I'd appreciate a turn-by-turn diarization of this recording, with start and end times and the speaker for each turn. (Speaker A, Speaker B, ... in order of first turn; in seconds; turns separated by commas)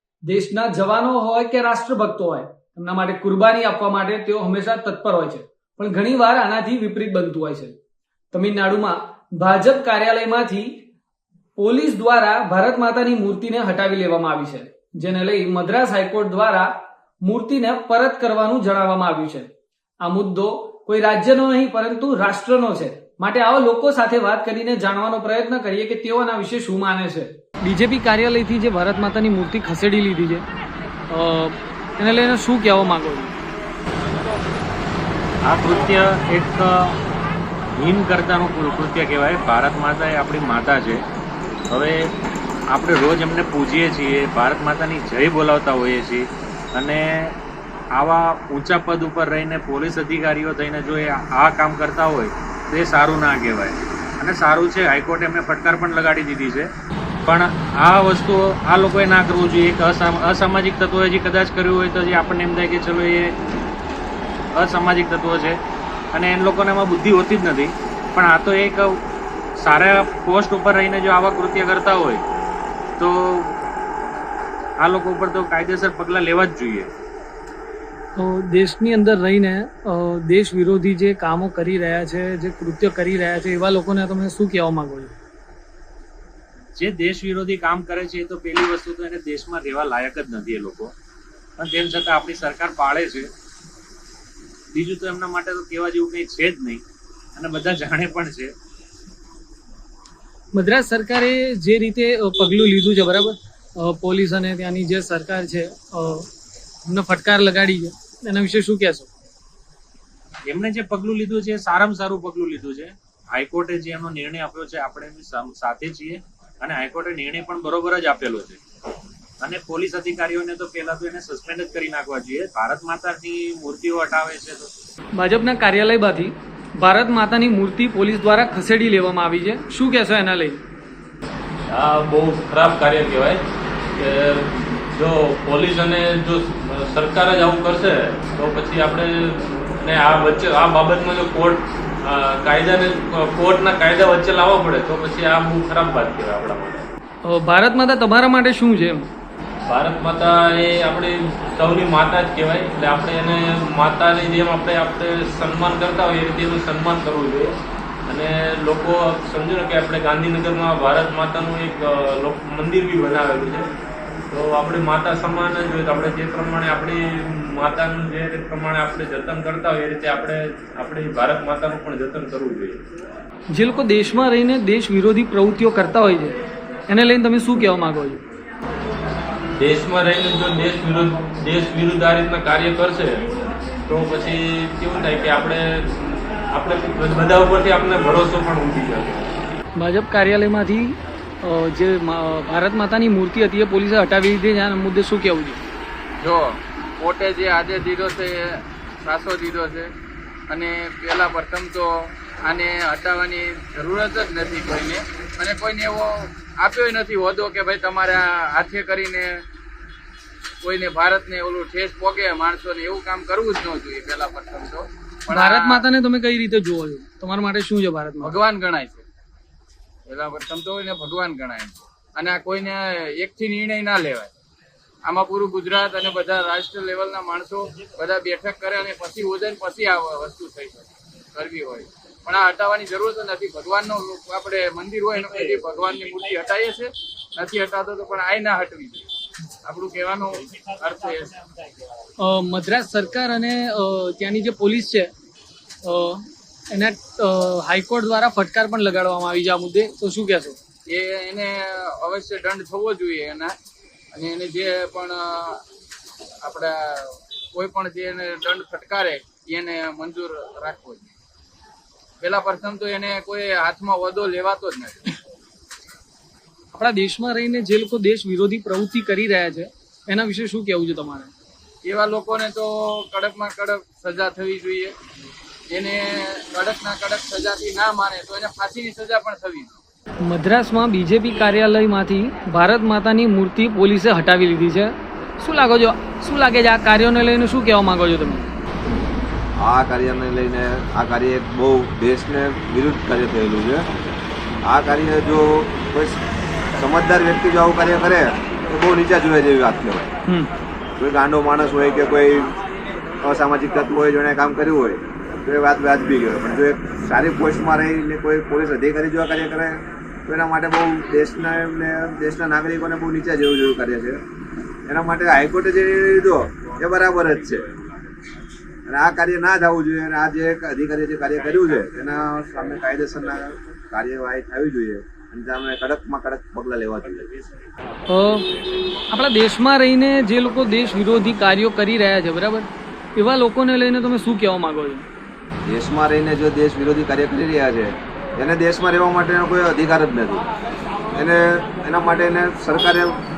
Speaker A: 0.2-7.8, Speaker A: 8.3-10.7, Speaker A: 11.6-19.5, Speaker A: 20.0-30.4, Speaker A: 31.1-33.3, Speaker B: 35.4-37.0, Speaker B: 37.8-41.0, Speaker B: 41.7-42.1, Speaker B: 42.7-47.4, Speaker B: 47.9-56.7, Speaker B: 57.2-63.3, Speaker B: 64.5-65.6, Speaker B: 66.1-68.8, Speaker B: 69.6-72.2, Speaker B: 73.0-73.5, Speaker B: 74.8-76.9, Speaker A: 78.2-85.1, Speaker B: 86.8-90.9, Speaker B: 91.6-93.3, Speaker B: 94.7-96.8, Speaker B: 97.3-98.5, Speaker A: 100.5-106.3, Speaker A: 106.9-109.1, Speaker B: 110.5-118.6, Speaker B: 119.4-124.7, Speaker A: 125.1-130.6, Speaker C: 131.7-133.4, Speaker C: 134.0-146.9, Speaker A: 147.2-149.0, Speaker C: 149.7-157.5, Speaker C: 158.1-163.7, Speaker C: 164.3-172.8, Speaker A: 173.5-176.3, Speaker A: 176.9-178.2, Speaker C: 179.6-183.2, Speaker C: 183.9-189.3, Speaker A: 189.8-195.6, Speaker D: 196.2-199.9, Speaker D: 200.5-209.3, Speaker D: 210.6-215.8, Speaker A: 215.3-218.4, Speaker D: 218.2-219.1, Speaker D: 220.1-224.3, Speaker D: 225.0-239.0, Speaker D: 239.6-241.4, Speaker A: 242.2-245.1, Speaker A: 245.8-250.6, Speaker D: 250.9-253.5, Speaker D: 254.1-255.6, Speaker D: 256.4-261.1, Speaker D: 262.2-265.1, Speaker A: 266.7-271.3, Speaker D: 271.8-274.9, Speaker D: 275.7-279.7, Speaker A: 280.2-288.5, Speaker E: 289.6-293.9, Speaker E: 294.6-296.2, Speaker E: 296.8-300.1, Speaker E: 301.0-302.5, Speaker E: 303.2-314.2, Speaker E: 314.9-317.7, Speaker E: 318.9-327.3, Speaker A: 328.1-328.5, Speaker A: 329.1-335.1, Speaker E: 335.6-340.4, Speaker E: 341.1-343.2